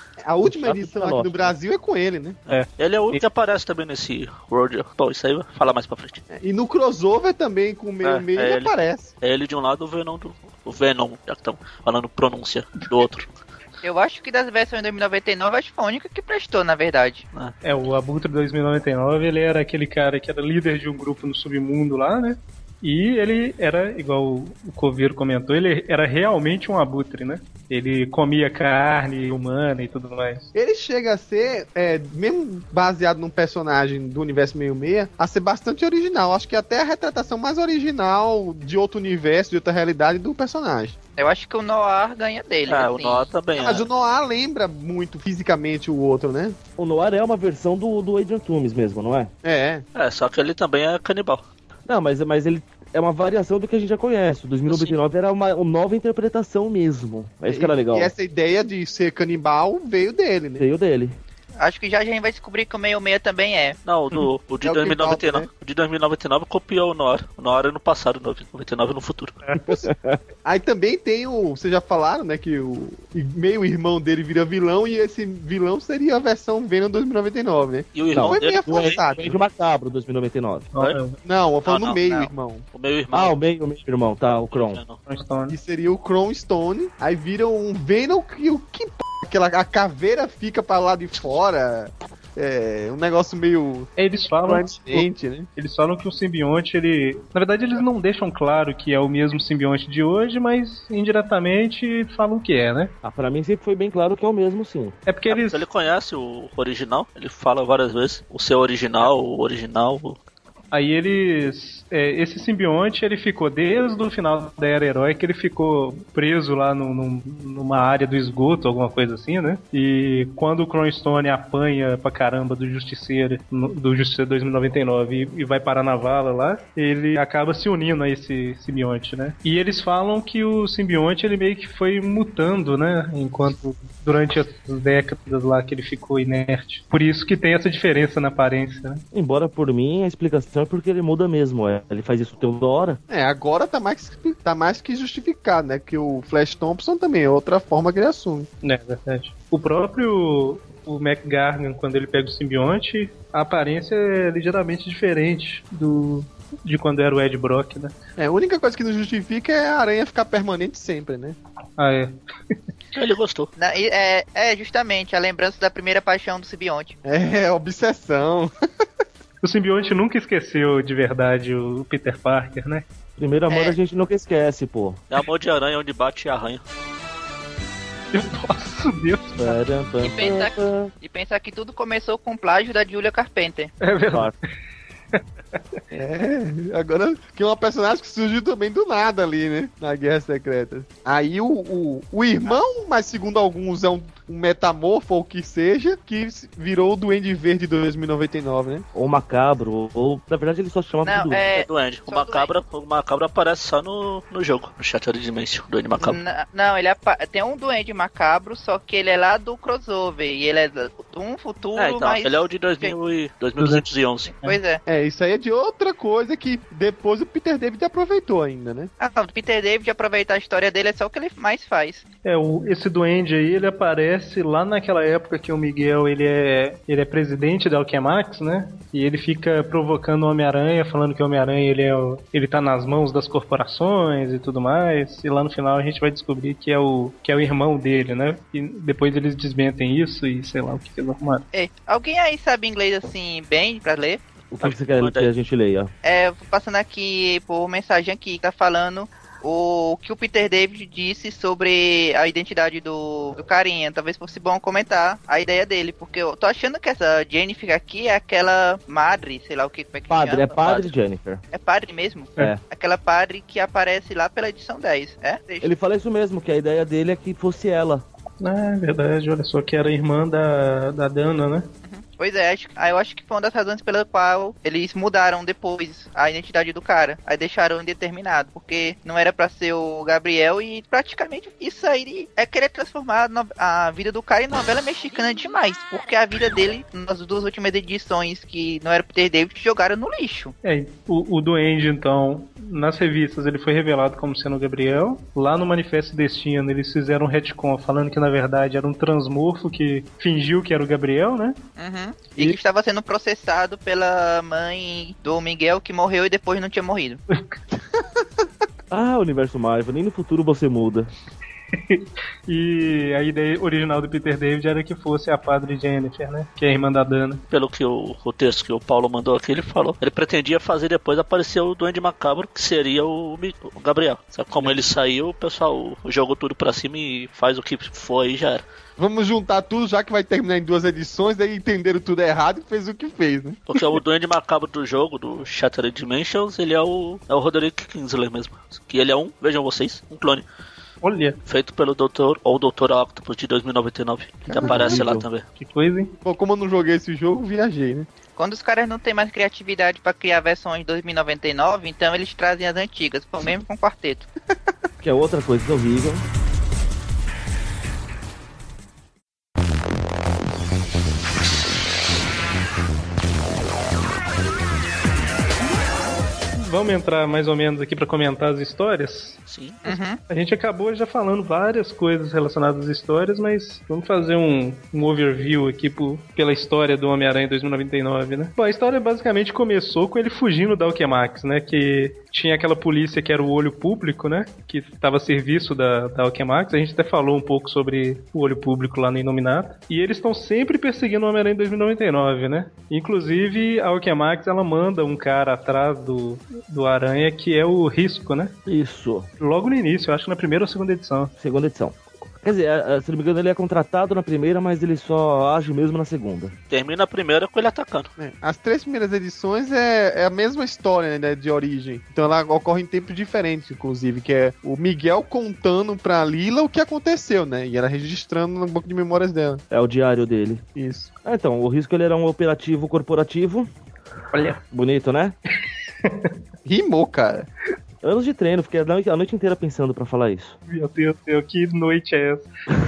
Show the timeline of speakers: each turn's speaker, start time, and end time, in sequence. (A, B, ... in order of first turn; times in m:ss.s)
0:00.2-0:02.4 A
0:00.4-0:01.5 B
0:02.5-0:03.2 C
0:02.5-0:06.2 D
0:06.3-0:09.1 A
0:08.0-0:13.3 D
0:13.8-0:17.3 E
0:17.6-0:30.5 C
0:30.5-0:41.0 A
0:41.2-0:43.3 E
0:42.7-0:43.9 D
0:43.6-0:46.6 A
0:46.8-0:49.3 B
0:49.4-0:49.8 A
0:50.0-0:51.4 D
0:51.9-0:58.1 B
0:54.7-0:54.9 D
0:57.5-1:00.6 A
1:00.6-1:01.2 B
1:01.6-1:03.8 E
1:03.8-1:09.4 D
1:04.6-1:05.5 A
1:09.6-1:09.9 A
1:09.7-1:10.2 B
1:10.4-1:19.4 A
1:18.0-1:19.1 D
1:18.1-1:20.7 B
1:20.7-1:21.2 C
1:21.2-1:22.6 A
1:21.6-1:22.0 D
1:22.0-1:22.3 E
1:22.7-1:23.4 D
1:23.1-1:24.8 B
1:24.5-1:25.0 D
1:25.1-1:25.6 C
1:25.5-1:33.9 A
1:34.0-1:42.9 C
1:34.4-1:35.5 A
1:43.0-1:45.0 B
1:45.1-1:45.6 C
1:45.3-1:50.2 D
1:50.7-2:19.0 C
2:19.1-2:23.0 B
2:23.1-2:28.5 A
2:28.6-2:37.9 C
2:38.2-2:41.4 A
2:41.8-2:42.5 C
2:42.9-2:43.5 D
2:43.6-2:47.0 E
2:47.0-2:48.5 A
2:49.4-2:52.8 C
2:53.2-2:55.0 B
2:53.5-2:53.8 E
2:55.1-2:56.6 D
2:58.1-2:59.6 C
2:59.4-3:00.9 B
3:00.0-3:03.7 E
3:03.8-3:04.3 C
3:05.1-3:05.8 C
3:05.9-3:18.8 A
3:18.9-3:21.4 B
3:21.0-3:22.5 E
3:21.5-3:26.2 D
3:26.0-3:33.0 E
3:31.8-3:34.3 D
3:33.6-3:33.9 C
3:34.4-3:34.8 E
3:34.9-3:38.9 A
3:39.0-3:42.0 E
3:42.2-4:01.4 C
4:01.5-4:04.2 E
4:04.5-4:05.9 B
4:04.6-4:05.3 D
4:06.0-4:20.6 E
4:20.1-4:21.4 B
4:21.5-4:25.7 E
4:25.6-4:28.0 B
4:28.4-4:31.7 C
4:31.8-4:50.5 E
4:50.6-5:01.6 C
5:01.8-5:07.2 E
5:07.3-5:07.6 C
5:07.8-5:08.0 A
5:08.9-5:11.1 B
5:11.8-5:17.4 C
5:17.5-5:28.6 D
5:29.0-5:33.6 A
5:33.7-5:40.4 D
5:41.0-5:41.4 C
5:41.5-5:45.4 D
5:44.5-5:45.0 A
5:44.6-5:45.3 B
5:45.6-5:46.1 C
5:46.2-5:48.1 A
5:48.4-5:54.3 E
5:55.0-5:56.2 B
6:06.6-6:09.4 C
6:09.5-6:09.9 D
6:09.8-6:10.2 E
6:10.3-6:38.6 C
6:38.7-6:39.3 B
6:39.4-6:41.3 C
6:41.4-6:46.6 B
6:46.7-6:48.1 D
6:48.2-6:59.6 A
6:59.7-7:00.6 B
7:00.8-7:01.1 A
7:01.2-7:03.7 B
7:04.3-7:04.6 C
7:04.7-7:05.4 B
7:06.0-7:06.3 C
7:06.6-7:07.5 A
7:08.0-7:10.6 B
7:10.7-7:12.5 C